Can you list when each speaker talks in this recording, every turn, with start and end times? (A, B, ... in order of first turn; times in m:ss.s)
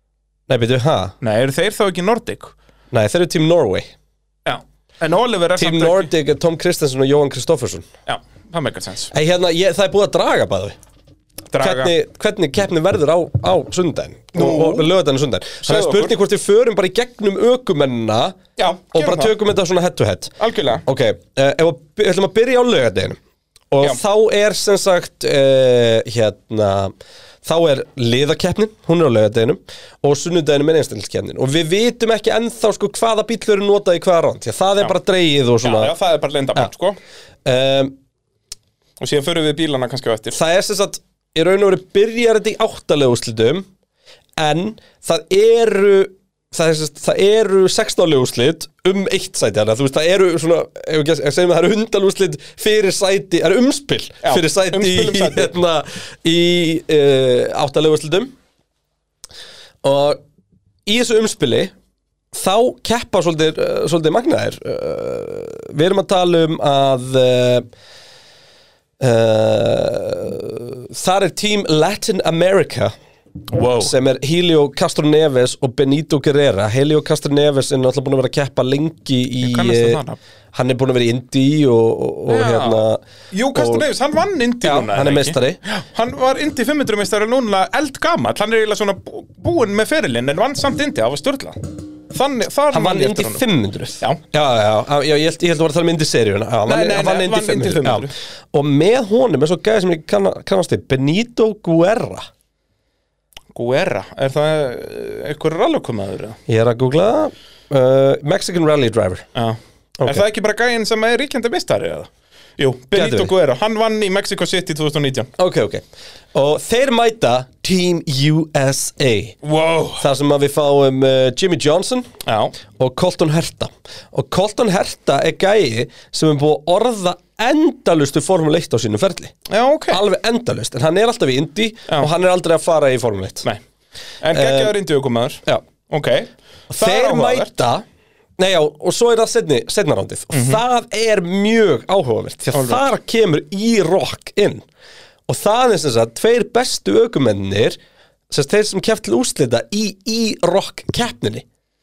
0:00.5-0:01.1 A
0:01.2-0:02.5 B
0:02.9-0:03.9 A
0:04.4-0:06.1 B
0:05.6-0:07.9 A
0:08.0-0:09.1 B
0:09.1-0:10.8 A
0:11.5-0:11.9 B
0:11.6-0:18.4 A
0:14.3-0:14.9 B
0:15.6-0:16.1 B
0:18.6-0:19.3 B
0:18.9-0:23.2 A
0:20.4-0:20.8 B
0:23.7-0:35.9 A
0:35.6-0:37.0 B
0:37.4-0:37.9 A
0:39.0-0:40.4 B
0:40.3-0:43.7 A
0:44.4-0:58.3 A
0:54.2-0:55.5 B
0:59.8-1:00.2 A
1:00.8-1:01.7 A
1:02.3-1:07.6 A
1:09.0-1:12.9 A
1:13.5-1:13.9 B
1:13.8-1:20.0 A
1:19.4-1:20.2 B
1:20.5-1:23.0 A
1:22.3-1:33.4 B
1:23.5-1:23.9 A
1:24.6-1:25.6 A
1:32.7-1:42.3 A
1:36.6-1:38.1 B
1:43.5-1:46.4 B
1:46.5-1:49.2 A
1:49.3-1:55.3 B
1:52.9-1:53.3 A
1:55.4-1:55.8 A
1:56.3-1:59.4 A
1:59.4-2:00.0 B
2:00.0-2:02.1 A
2:02.2-2:02.5 B
2:02.8-2:09.3 A
2:09.5-2:10.0 B
2:09.9-2:13.5 A
2:14.2-2:17.6 B
2:14.3-2:14.8 A
2:16.7-2:17.8 A
2:18.4-2:24.6 A
2:20.3-2:20.6 B
2:22.5-2:22.9 B
2:25.3-2:27.8 A
2:28.3-2:31.4 A